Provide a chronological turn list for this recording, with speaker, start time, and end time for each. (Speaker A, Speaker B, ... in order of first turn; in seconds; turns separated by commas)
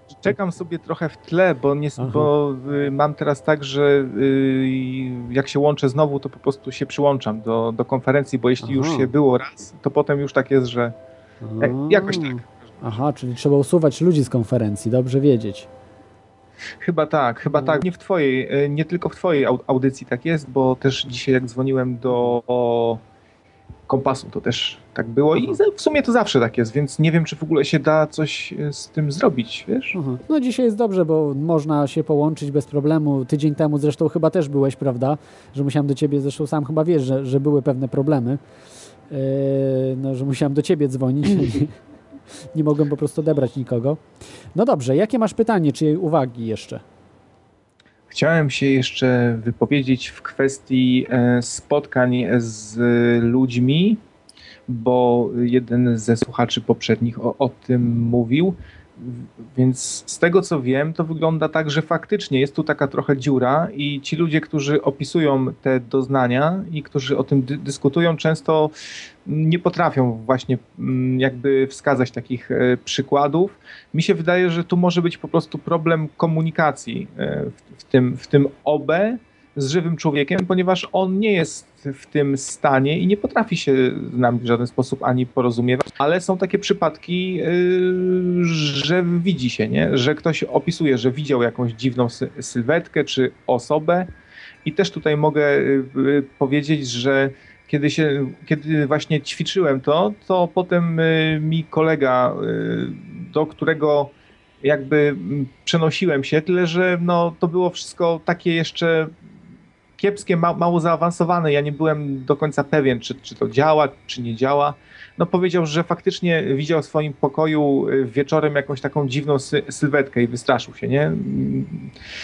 Speaker A: 0.2-10.9, Speaker B: 2.0-2.3, Speaker B: 8.6-9.1, Speaker B: 11.4-15.7, Speaker A: 11.6-13.0, Speaker A: 16.8-23.0, Speaker B: 17.6-17.8, Speaker A: 23.9-29.9, Speaker B: 29.9-38.4, Speaker B: 39.1-41.8, Speaker B: 42.5-44.0, Speaker B: 44.5-46.8, Speaker A: 48.1-54.0, Speaker A: 54.7-68.7, Speaker A: 69.2-94.1, Speaker A: 94.6-109.1, Speaker A: 110.0-121.9